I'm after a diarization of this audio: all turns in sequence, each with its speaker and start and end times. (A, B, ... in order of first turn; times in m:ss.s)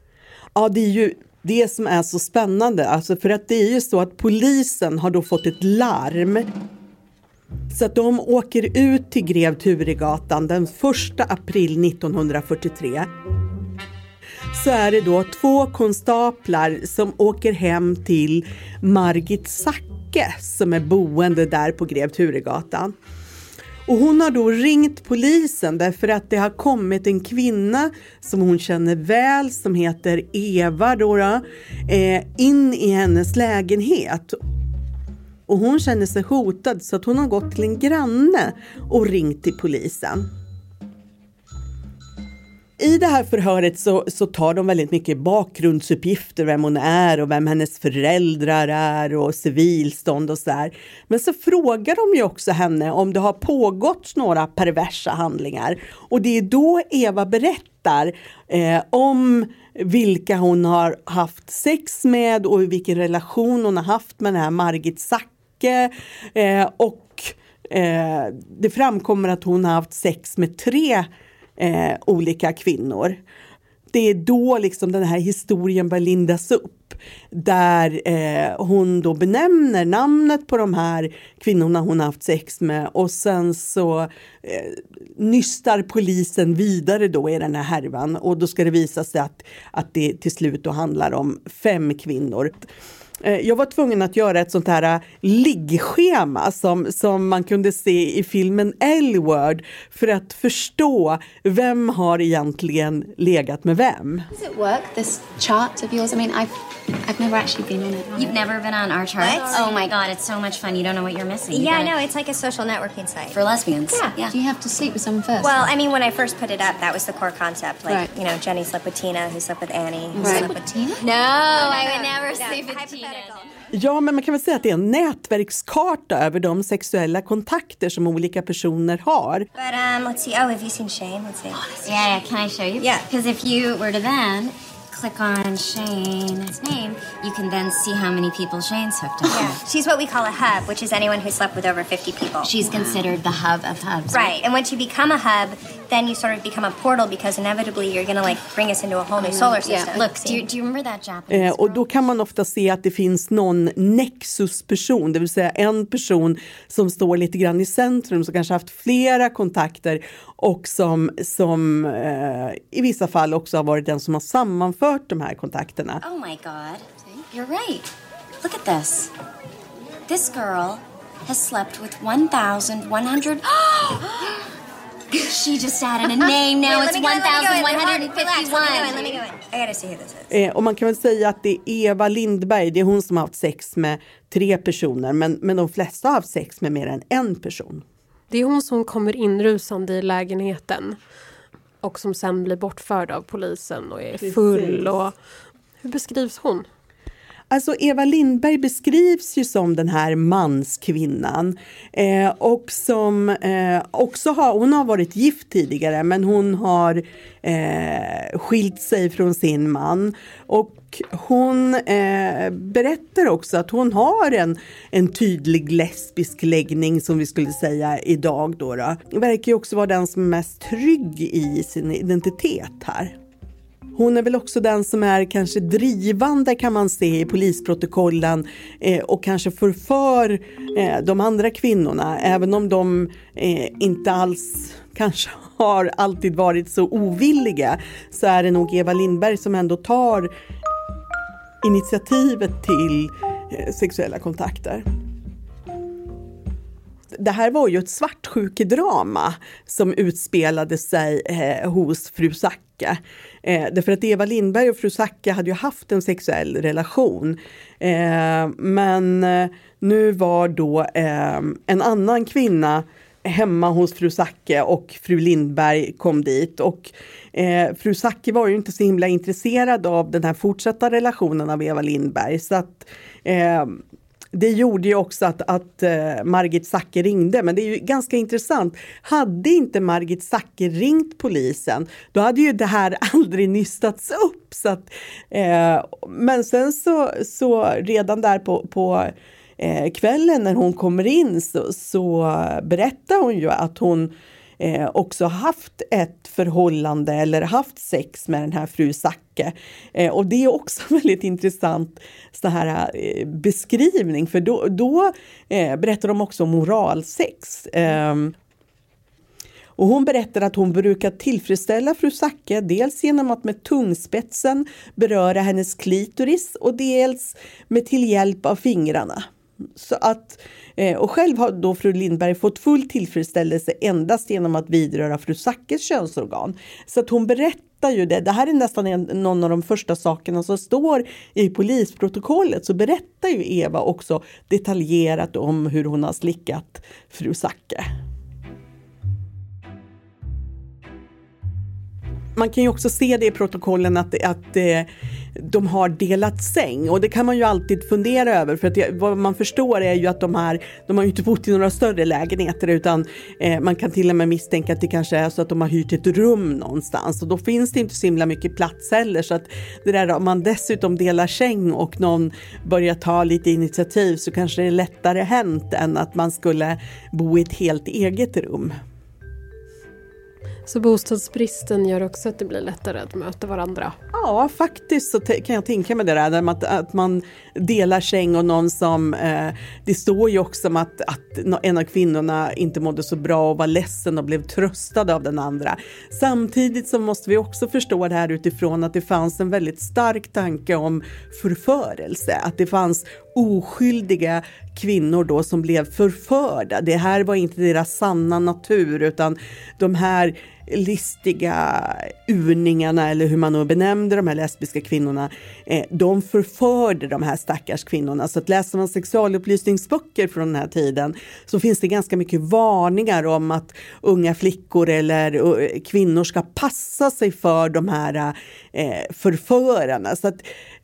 0:00.6-0:06.5 A
0:07.7-0:13.1 A
0:14.5-0:22.9 A
0:23.9-0:34.4 A
0:35.5-0:40.3 A
0:42.8-1:13.2 A
1:13.9-1:32.7 A
1:33.2-1:44.3 A
1:44.4-1:46.5 B
1:47.0-1:48.4 B
1:48.2-1:52.0 C
1:49.2-1:49.6 D
1:49.3-1:49.7 B
1:51.5-1:53.4 D
1:53.3-1:54.4 C
1:54.0-1:55.7 B
1:55.4-2:00.8 D
2:00.2-2:01.0 B
2:00.2-2:03.5 C
2:01.5-2:03.4 D
2:03.7-2:09.5 A
2:09.6-2:11.6 D
2:11.5-2:19.6 C
2:12.8-2:13.1 D
2:19.3-2:23.0 D
2:22.4-2:24.4 C
2:24.1-2:30.4 D
2:29.2-2:29.5 B
2:29.4-2:31.8 C
2:31.3-2:46.0 A
2:46.0-2:49.1 C
2:50.1-2:54.3 C
2:55.1-2:59.2 C
2:56.6-3:00.3 D
3:00.3-3:07.8 A
3:08.3-3:11.0 E
3:11.8-3:15.1 E
3:14.2-3:15.0 A
3:15.8-3:16.7 E
3:17.5-3:43.2 A
3:44.0-4:00.3 A
4:01.6-4:04.9 A
4:07.1-4:33.8 A
4:34.3-5:08.4 A
5:09.8-5:37.9 A
5:42.4-6:08.7 A
6:10.7-6:14.0 E
6:14.1-7:00.5 A